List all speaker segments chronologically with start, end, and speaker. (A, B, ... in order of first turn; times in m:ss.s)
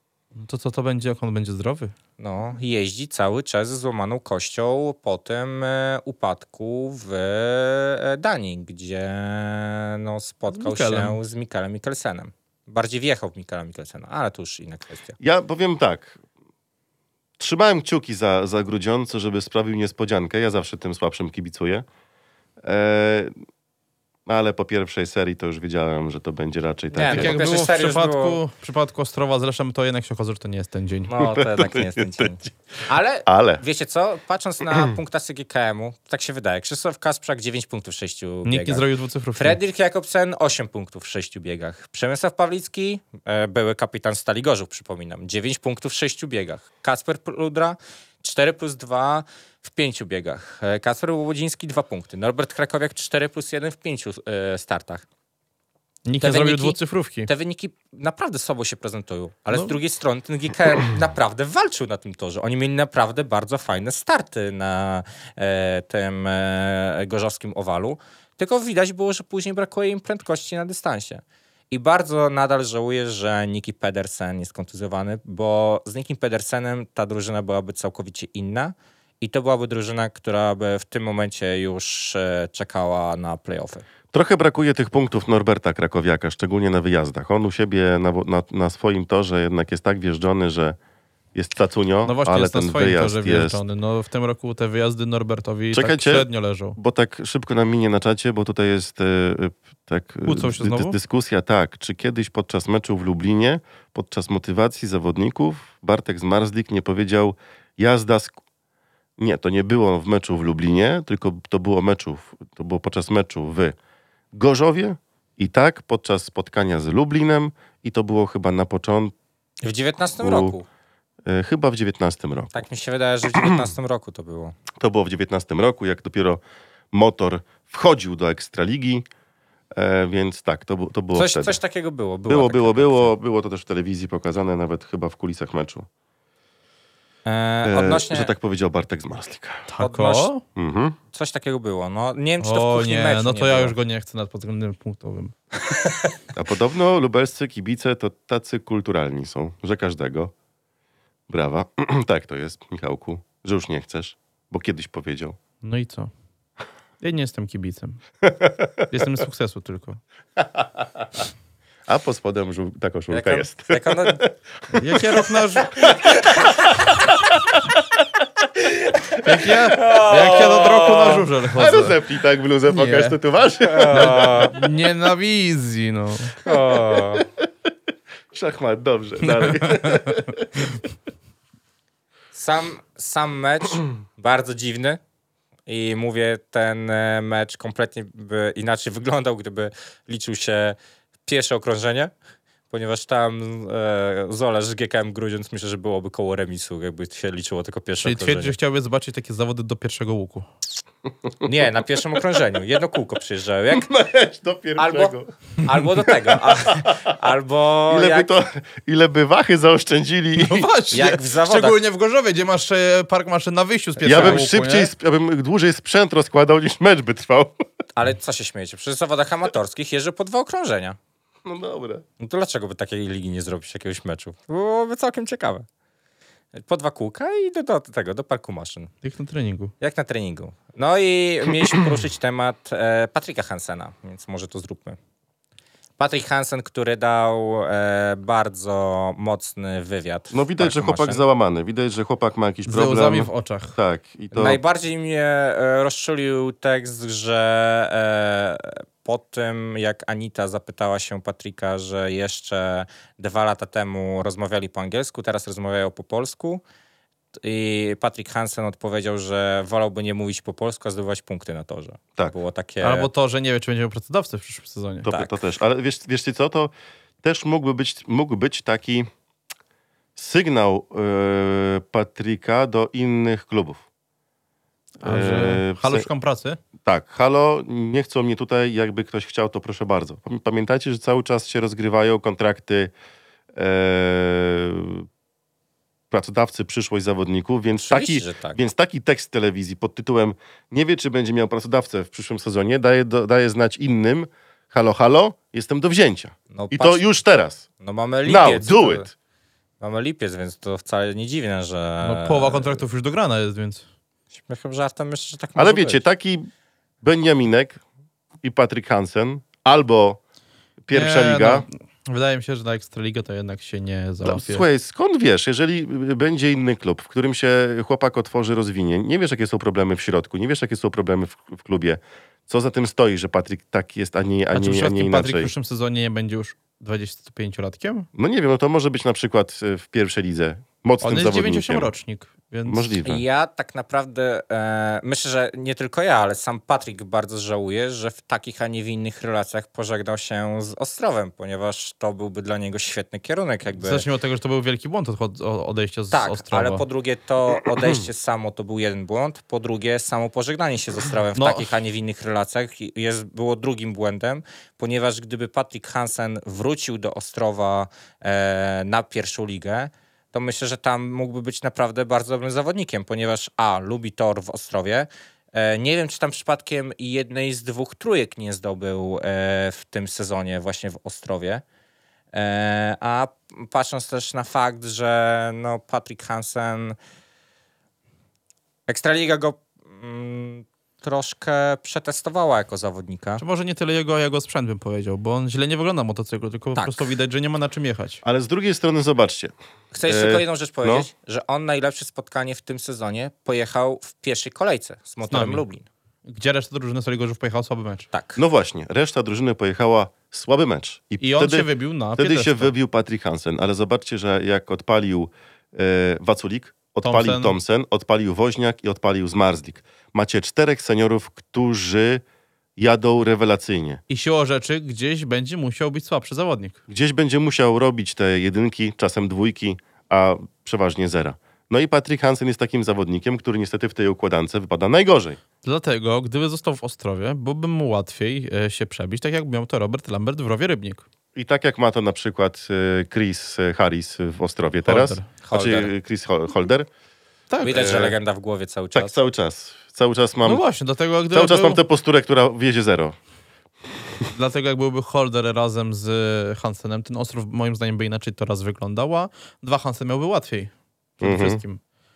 0:00.4-0:01.9 A
0:02.2-0:15.2 B
0:10.5-0:11.2 A
0:15.2-0:16.2 C
0:17.4-0:21.8 C
0:22.6-0:23.3 C
0:24.2-0:27.4 C
0:26.9-0:28.4 B
0:27.0-0:31.1 A
0:31.1-0:55.0 B
0:31.2-0:32.3 C
0:33.2-0:33.6 C
0:38.4-0:39.6 A
0:56.0-0:57.3 A
0:56.2-1:23.8 B
1:24.1-1:30.8 C
1:31.3-1:33.6 C
1:32.0-1:36.8 A
1:35.7-1:48.4 C
1:40.2-1:41.0 A
1:49.2-1:53.8 C
1:54.3-1:59.1 C
1:59.6-2:00.6 B
2:00.2-2:00.6 C
2:01.2-2:02.6 C
2:02.5-2:04.6 B
2:03.3-2:03.6 C
2:04.8-2:06.4 C
2:06.9-2:09.0 C
2:09.7-2:11.6 C
2:11.1-2:13.1 B
2:12.3-2:15.9 C
2:17.2-2:18.3 B
2:17.6-2:19.7 C
2:19.7-2:20.4 A
2:19.8-2:20.3 B
2:20.6-2:21.0 C
2:21.1-2:23.7 B
2:22.4-2:25.3 A
2:25.7-2:26.1 B
2:26.3-2:30.3 C
2:31.3-2:35.4 C
2:35.6-2:36.1 A
2:37.0-2:38.0 A
2:38.4-2:38.7 C
2:38.9-2:40.0 A
2:41.9-2:45.0 C
2:43.1-2:44.2 B
2:44.7-2:45.8 A
2:45.8-2:46.5 C
2:45.9-2:46.5 B
2:49.2-2:52.0 A
2:49.7-2:51.3 B
2:51.5-2:54.5 C
2:52.7-2:53.2 A
2:53.6-2:54.5 B
2:53.9-2:56.4 A
2:56.4-2:57.2 B
2:56.4-2:57.2 C
2:58.3-3:00.6 C
2:59.2-3:00.2 A
3:02.3-3:05.0 B
3:05.7-3:12.1 B
3:12.7-3:18.6 B
3:18.0-3:20.5 A
3:21.4-3:23.9 B
3:23.7-3:27.1 C
3:24.8-3:28.3 B
3:27.9-3:30.7 C
3:30.4-3:34.9 A
3:30.9-3:31.8 B
3:34.0-3:34.4 B
3:34.0-3:37.6 C
3:38.0-3:41.0 B
3:41.4-3:42.0 C
3:42.2-3:45.6 B
3:46.5-3:48.9 B
3:49.0-3:49.7 A
3:49.8-3:55.0 B
3:56.0-4:01.2 B
4:00.3-4:04.6 C
4:02.6-4:03.8 A
4:04.3-4:16.6 B
4:17.4-4:23.1 B
4:22.8-4:25.1 A
4:25.0-4:26.7 C
4:27.2-4:29.1 C
4:30.2-4:33.8 C
4:35.0-4:36.6 A
4:35.0-4:36.1 C
4:36.8-4:42.9 C
4:43.5-4:45.1 C
4:46.1-4:57.6 C
4:47.7-4:48.6 B
4:56.5-4:57.0 B
4:57.8-4:59.1 B
4:58.2-4:59.1 C
4:59.8-5:02.8 B
5:02.0-5:03.8 A
5:04.3-5:06.0 B
5:05.6-5:06.5 C
5:07.0-5:07.8 C
5:08.4-5:10.2 C
5:10.8-5:11.6 C
5:10.9-5:14.6 A
5:14.2-5:25.5 C
5:24.5-5:28.1 A
5:28.1-5:31.9 C
5:31.0-5:33.0 A
5:32.7-5:33.2 C
5:33.0-5:44.0 B
5:43.8-5:46.8 A
5:46.1-6:11.6 B
5:51.3-5:51.7 A
6:12.3-6:17.0 B
6:18.9-6:23.4 B
6:23.4-6:28.2 A
6:26.8-6:27.0 B
6:28.2-6:29.5 C
6:29.9-6:35.8 B
6:30.0-6:31.1 C
6:35.3-6:35.6 A
6:36.2-6:38.1 A
6:38.1-6:38.4 B
6:38.4-6:52.2 C
6:41.2-6:42.7 A
6:47.0-6:47.6 A
6:52.8-6:54.0 C
6:54.1-6:56.8 A
6:56.9-7:05.4 C
7:05.6-7:11.0 A
7:11.3-7:16.9 C
7:14.8-7:15.3 A
7:15.4-7:15.9 B
7:17.5-7:17.8 A
7:17.6-7:19.1 B
7:17.6-7:18.2 C
7:18.9-7:20.6 C
7:20.4-7:21.8 A
7:21.3-7:23.2 C
7:24.3-7:31.8 A
7:31.2-7:31.6 C